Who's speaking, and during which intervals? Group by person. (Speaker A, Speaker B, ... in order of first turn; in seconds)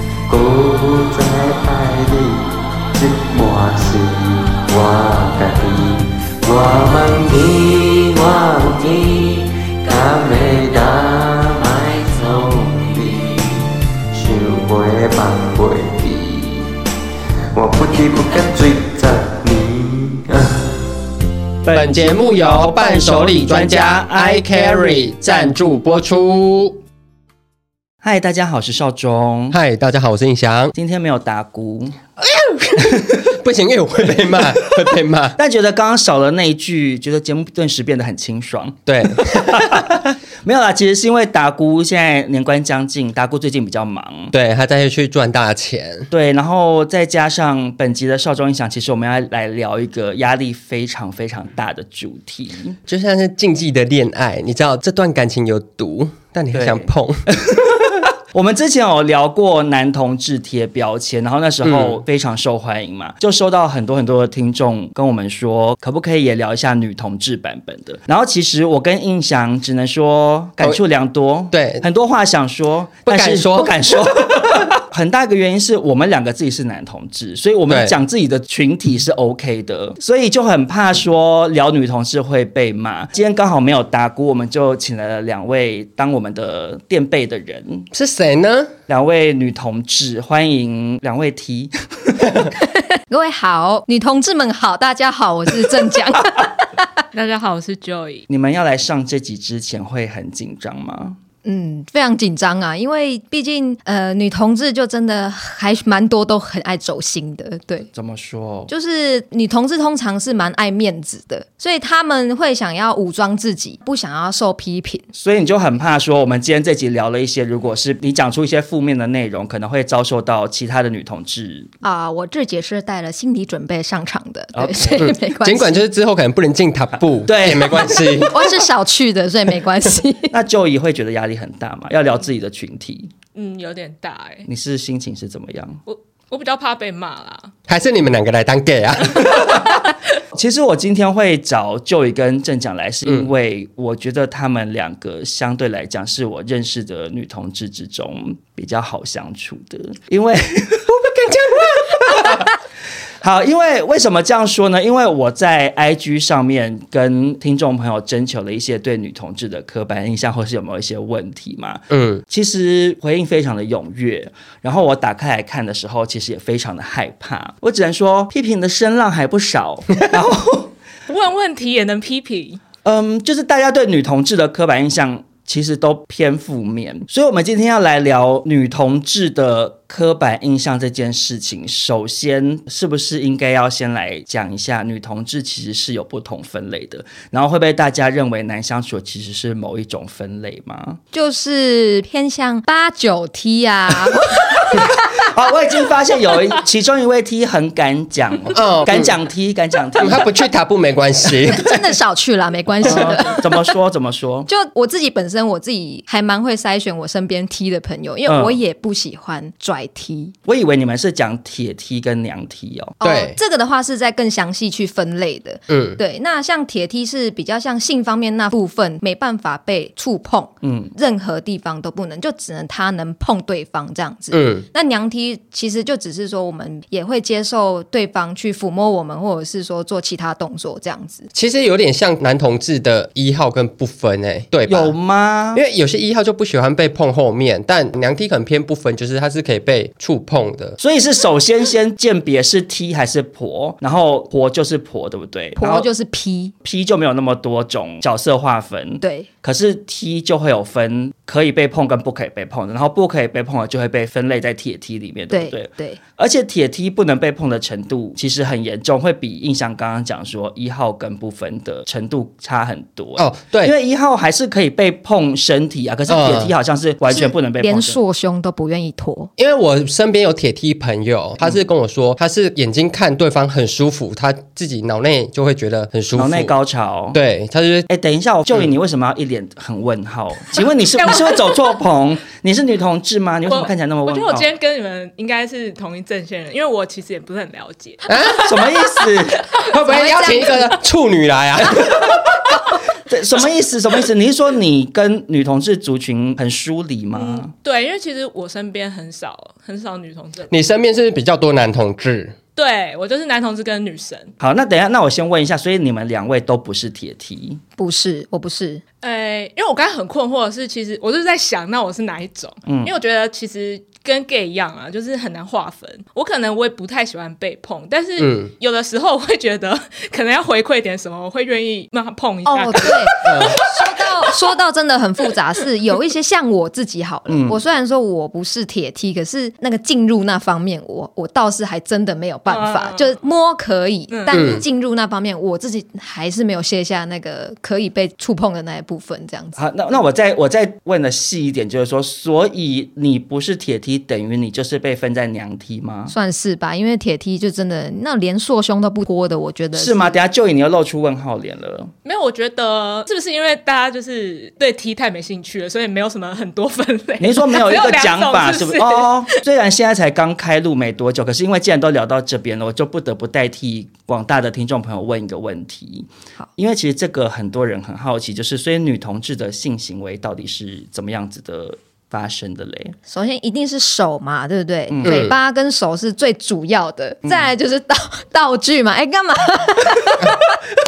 Speaker A: 0.3-16.7, 17.5-20.6
Speaker B: 21.6-25.6, 28.0-29.6, 30.7-32.0, 35.4-44.3, 46.1-52.8, 56.5-87.9, 88.9-92.4, 98.3-101.2, 107.9-108.7, 115.1-121.7, 124.5-125.1, 127.2-128.3, 130.3-133.1, 134.5-135.8, 139.3-139.8, 140.3-152.5, 153.2-170.7, 172.8-191.0, 195.2-200.3, 202.8-204.5, 208.2-208.6, 210.5-213.0, 220.6-220.9, 234.7-235.6, 240.8-245.9, 246.6-268.0, 276.1-277.2, 277.9-284.4, 288.4-289.5, 293.1-297.5, 304.4-307.6, 312.6-312.9, 327.3-327.6, 339.6-346.1, 349.7-351.9, 357.2-372.9, 374.9-375.2
Speaker C: 21.7-26.8, 29.5-30.7, 32.2-35.4, 38.9-39.9, 44.3-46.1, 52.9-57.2, 61.6-62.0, 71.5-71.8, 73.1-73.7, 77.7-77.9, 87.9-88.7, 125.0-128.5, 137.7-139.6, 151.1-151.6, 161.9-162.2, 198.5-199.1, 200.0-201.8, 202.8-203.2, 213.0-213.4, 215.7-216.0, 224.3-224.6, 231.3-234.9, 235.5-240.8, 263.2-263.7, 266.1-266.5, 269.4-276.5, 277.1-277.9, 288.1-288.5, 289.5-292.4, 300.5-302.4, 318.2-318.5, 323.2-323.6, 334.3-334.6, 375.0-375.3
Speaker D: 92.6-96.9, 101.4-107.9, 108.7-115.1, 121.8-125.8, 127.9-130.3, 191.1-195.3, 201.5-203.6, 204.5-210.3, 213.0-231.3, 245.6-246.5, 249.0-249.3, 255.3-256.0, 267.1-269.3, 289.8-290.8, 307.8-308.8, 322.4-339.6, 346.1-350.1, 373.1-380.6
Speaker E: 97.1-98.2, 133.3-134.5, 135.9-137.5, 171.1-172.6, 281.0-281.6, 283.5-288.0, 297.1-300.5, 302.6-304.3, 309.0-324.1, 332.5-333.1, 334.1-334.5, 352.0-359.4